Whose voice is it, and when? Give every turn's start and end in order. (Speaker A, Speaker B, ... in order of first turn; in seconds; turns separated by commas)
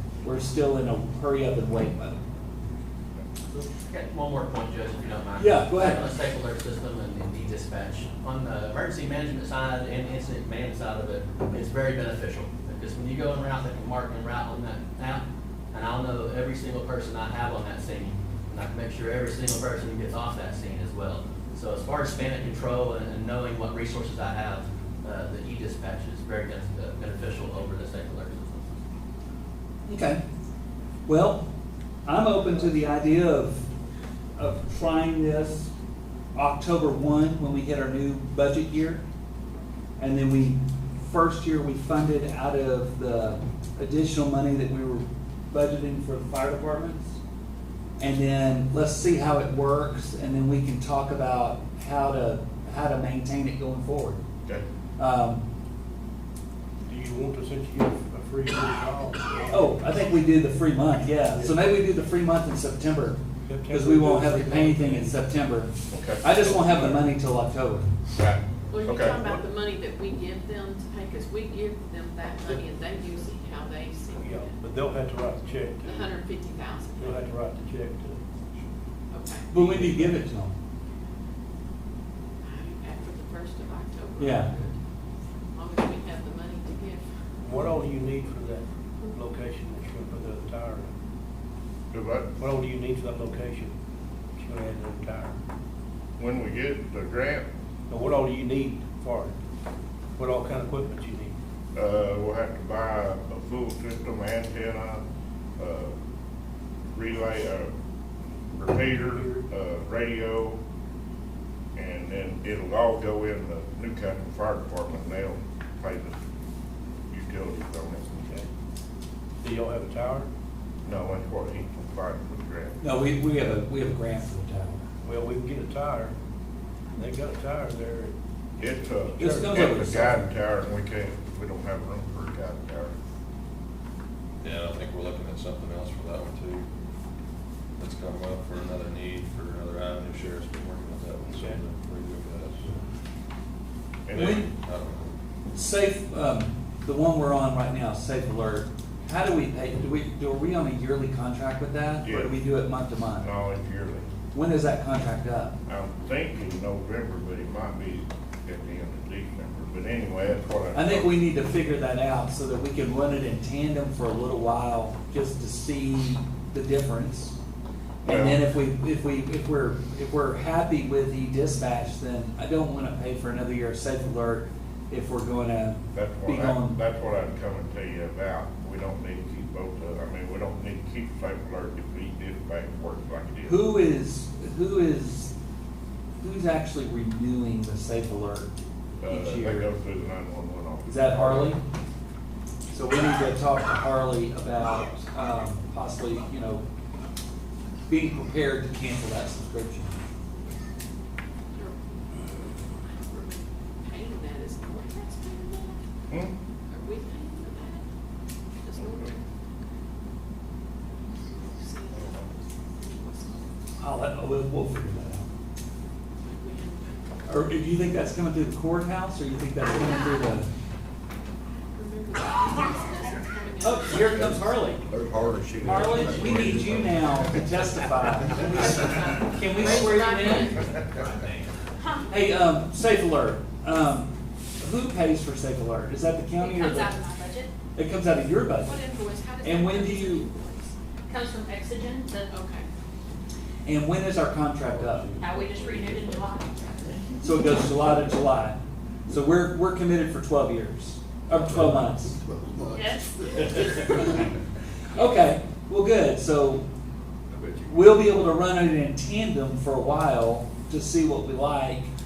Speaker A: 0.2-2.2, Speaker B: 3.5-28.7, Speaker A: 5.4-6.1, Speaker A: 29.9-30.2, Speaker A: 31.1-31.4, Speaker A: 32.0-33.6, Speaker A: 34.4-35.7, Speaker A: 36.4-39.0, Speaker A: 40.0-47.2, Speaker A: 48.0-54.2, Speaker A: 55.0-55.4, Speaker C: 56.9-59.7, Speaker A: 59.5-67.9, Speaker C: 61.3-61.6, Speaker C: 63.5-65.2, Speaker D: 65.9-66.2, Speaker C: 66.3-67.1, Speaker D: 68.2-69.2, Speaker E: 68.7-74.5, Speaker C: 72.5-73.3, Speaker C: 74.2-76.2, Speaker E: 75.8-77.3, Speaker C: 77.0-78.2, Speaker E: 79.1-79.8, Speaker A: 79.5-80.5, Speaker C: 79.7-80.3, Speaker E: 82.4-84.8, Speaker A: 84.2-84.5, Speaker E: 85.5-87.2, Speaker C: 87.4-90.9, Speaker D: 91.9-92.3, Speaker C: 92.4-93.7, Speaker C: 94.4-95.4, Speaker D: 96.2-97.5, Speaker C: 97.9-99.4, Speaker C: 100.2-101.3, Speaker D: 101.7-105.0, Speaker D: 105.6-106.0, Speaker D: 106.9-107.7, Speaker D: 108.5-110.6, Speaker C: 109.0-109.4, Speaker D: 111.8-116.2, Speaker D: 117.1-118.1, Speaker C: 118.2-118.5, Speaker C: 119.4-120.3, Speaker D: 120.8-122.8, Speaker A: 122.8-124.8, Speaker C: 125.0-126.2, Speaker C: 127.0-128.2, Speaker D: 128.6-133.0, Speaker A: 129.2-130.3, Speaker C: 129.2-129.7, Speaker F: 134.4-136.7, Speaker F: 137.8-142.7, Speaker C: 141.3-141.6, Speaker D: 144.1-144.4, Speaker F: 144.1-145.1, Speaker A: 144.2-144.4, Speaker A: 145.5-153.3, Speaker D: 152.0-152.3, Speaker D: 153.2-154.1, Speaker A: 154.3-155.6, Speaker D: 155.7-161.2, Speaker A: 160.7-167.3, Speaker A: 168.0-176.8, Speaker D: 168.1-168.4, Speaker D: 175.9-183.6, Speaker A: 183.5-185.3, Speaker A: 186.2-188.5, Speaker D: 189.0-191.5, Speaker A: 189.1-189.7, Speaker A: 190.9-191.6, Speaker A: 192.7-196.6, Speaker A: 197.9-199.9, Speaker E: 201.5-205.9, Speaker D: 206.1-206.3, Speaker E: 206.7-207.8, Speaker E: 208.6-209.3, Speaker D: 208.8-209.1, Speaker E: 211.2-213.7, Speaker A: 213.8-215.3, Speaker E: 216.2-217.2, Speaker A: 217.3-220.5, Speaker E: 221.7-224.4, Speaker A: 223.6-224.8, Speaker G: 224.2-227.3, Speaker A: 225.6-230.5, Speaker E: 228.4-230.7, Speaker B: 230.9-231.3, Speaker A: 232.1-237.0, Speaker H: 236.4-237.5, Speaker A: 237.8-238.8, Speaker E: 238.6-240.7, Speaker A: 239.4-240.3, Speaker H: 241.1-242.3, Speaker E: 242.3-242.7, Speaker A: 243.7-245.1, Speaker G: 244.7-247.0, Speaker H: 245.2-246.5, Speaker A: 247.2-252.2, Speaker G: 251.5-253.6, Speaker H: 252.8-253.8, Speaker A: 253.9-254.3, Speaker A: 254.9-256.6, Speaker A: 257.7-261.9